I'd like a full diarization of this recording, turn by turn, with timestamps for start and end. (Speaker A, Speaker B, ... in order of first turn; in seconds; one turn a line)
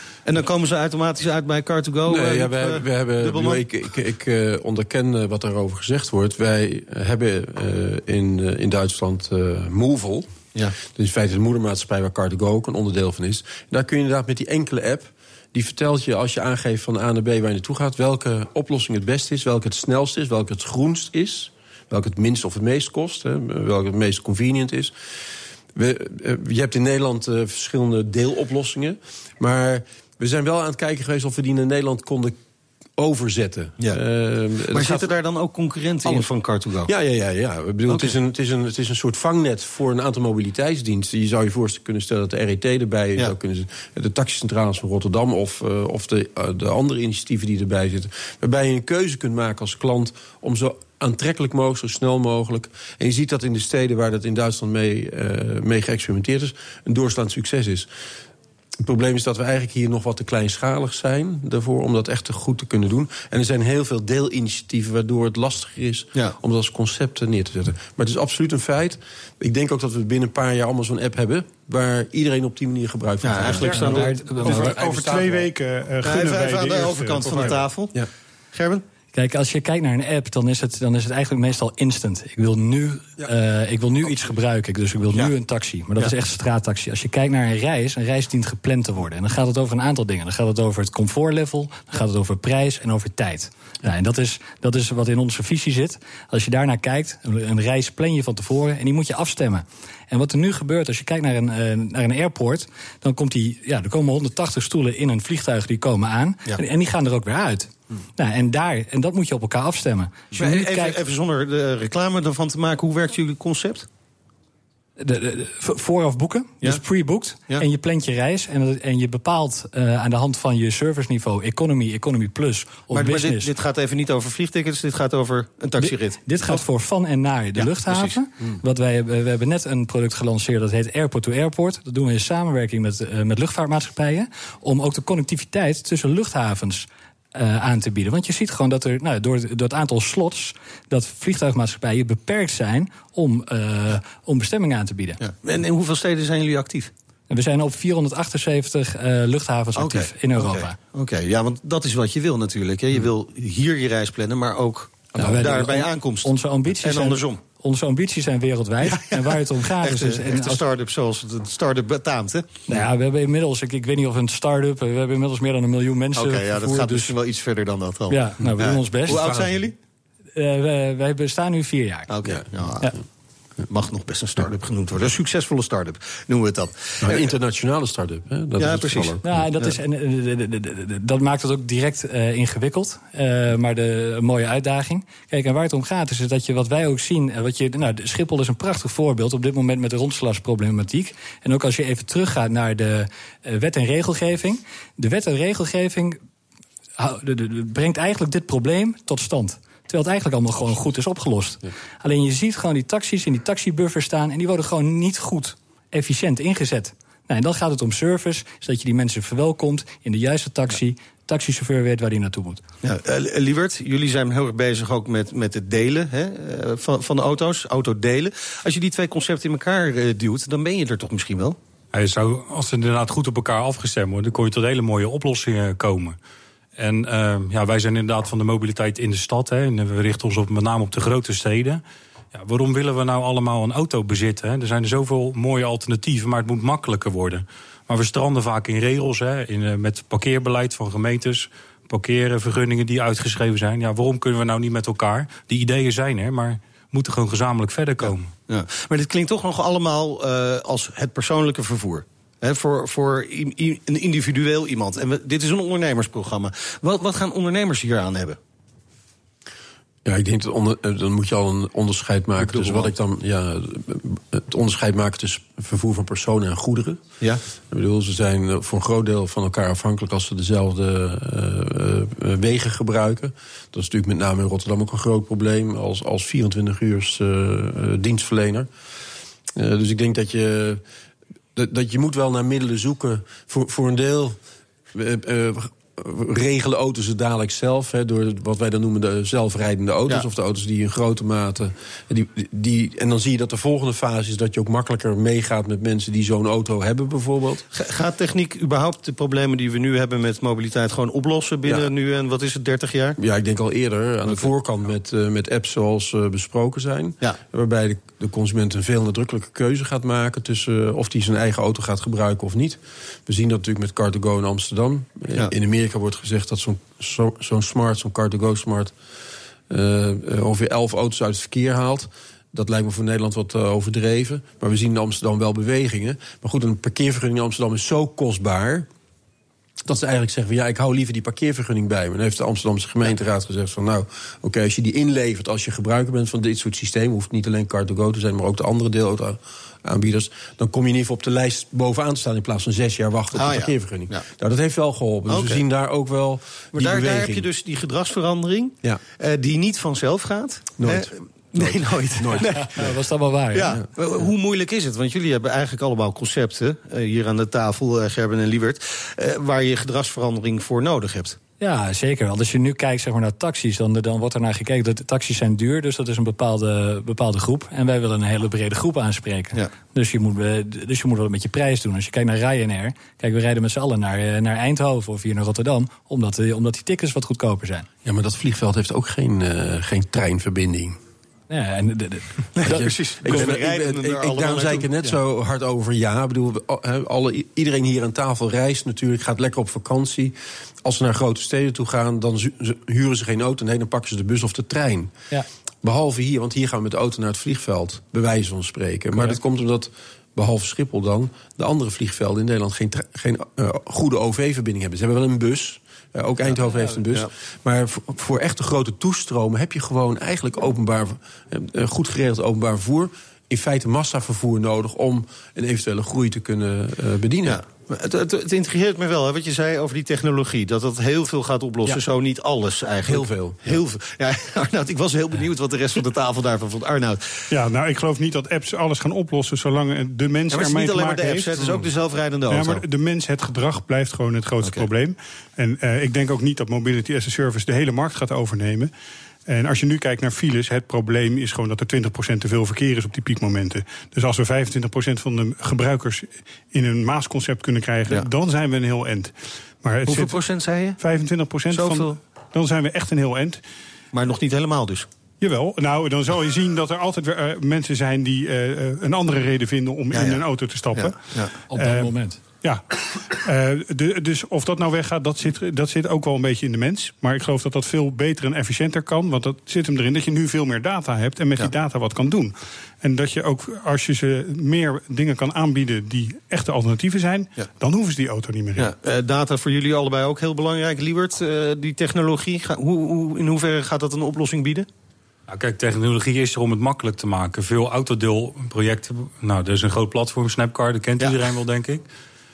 Speaker A: 0.2-3.6
Speaker B: 2.0-10.3
Speaker B: 10.8-24.9
Speaker B: 25.7-32.4
Speaker B: 33.0-35.1
Speaker A: 34.7-36.9
Speaker B: 36.0-36.3
Speaker B: 36.8-57.9
Speaker B: 58.8-74.1
Speaker A: 73.2-74.8
Speaker C: 73.6-75.5
Speaker D: 73.9-77.7
Speaker A: 76.0-78.0
Speaker A: 78.5-78.8
Speaker C: 79.1-111.0
Speaker A: 110.3-113.9
Speaker C: 115.0-123.5
Speaker A: 122.9-126.6
Speaker C: 125.8-145.2
Speaker A: 127.5-128.2
Speaker A: 145.2-146.9
Speaker C: 147.3-150.8
Speaker A: 149.8-157.4
Speaker C: 155.2-160.6
Speaker A: 158.9-159.2
Speaker A: 159.8-162.5
Speaker C: 162.7-167.1
Speaker A: 166.1-169.7
Speaker C: 168.1-169.4
Speaker B: 169.1-169.5
Speaker C: 170.3-172.1
Speaker A: 172.1-172.9
Speaker A: 173.6-177.3
Speaker B: 177.0-179.4
Speaker A: 178.6-179.7
Speaker C: 179.2-196.2
Speaker C: 197.0-212.6
Speaker A: 212.8-221.6
Speaker E: 221.9-226.2
Speaker E: 226.8-231.8
Speaker E: 232.3-248.3
Speaker A: 248.0-258.4
Speaker B: 260.0-267.0
Speaker A: 262.4-262.9
Speaker B: 267.7-278.7
Speaker B: 279.6-280.8
Speaker B: 281.5-284.4
Speaker B: 284.9-297.6
Speaker A: 297.7-303.2
Speaker B: 303.2-318.9
Speaker B: 319.7-328.9
Speaker B: 329.8-347.5
Speaker A: 343.3-344.2
Speaker A: 345.3-345.6
Speaker A: 346.7-352.9
Speaker B: 350.8-352.9
Speaker C: 352.4-353.8
Speaker A: 353.5-361.4
Speaker C: 361.6-377.9
Speaker B: 378.0-381.0
Speaker C: 381.5-383.5
Speaker A: 382.6-385.1
Speaker B: 382.6-395.1
Speaker B: 395.8-417.6
Speaker C: 406.6-406.9
Speaker A: 417.4-427.4
Speaker B: 423.0-423.8
Speaker D: 427.5-431.9
Speaker A: 430.5-432.8
Speaker D: 432.5-438.9
Speaker D: 439.5-450.4
Speaker A: 450.1-451.0
Speaker D: 451.0-453.6
Speaker A: 451.7-452.1
Speaker A: 454.1-455.1
Speaker D: 455.4-461.2
Speaker A: 460.1-461.5
Speaker C: 461.7-462.4
Speaker D: 461.7-478.9
Speaker A: 478.8-484.9
Speaker E: 485.5-492.1